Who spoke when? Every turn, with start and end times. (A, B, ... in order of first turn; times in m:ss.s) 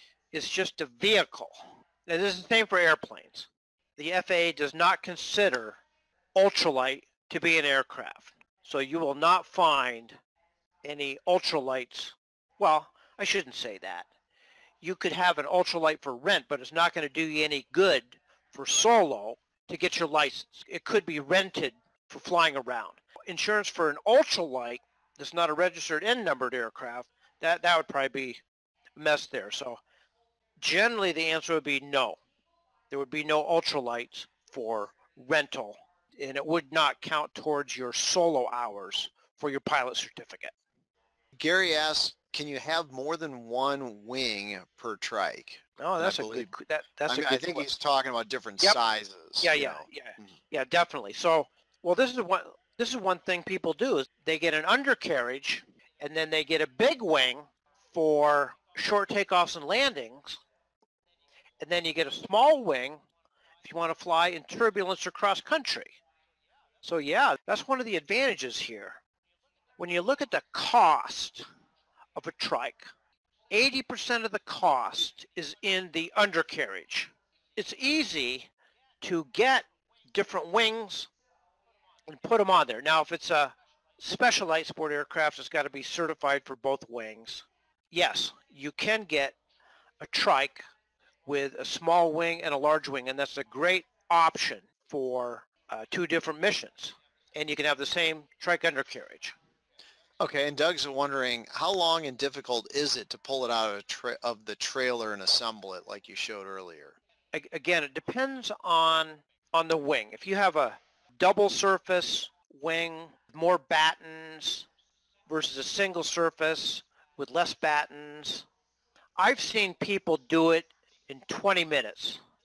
0:00.3-0:05.8 A
0:06.3-0:10.2 A
0:10.8-0:14.1 A
0:14.8-0:28.4 A
0:29.0-0:29.8 A
0:30.6-0:32.2 A
0:32.9-0:40.5 A
0:41.4-0:46.5 B
0:45.8-0:47.7 A
0:47.1-0:50.3 B
0:49.4-1:00.4 A
1:01.6-1:03.0 A
1:03.6-1:06.0 A
1:06.8-1:09.0 A
1:09.8-1:11.4 A
1:12.2-1:12.9 A
1:13.5-1:18.5 A
1:19.0-1:21.1 A
1:22.1-1:29.4 A
1:30.0-1:30.6 A
1:31.2-1:39.3 A
1:40.2-1:47.0 B
1:47.3-1:54.7 A
1:55.3-1:58.5 A
1:59.2-2:02.2 A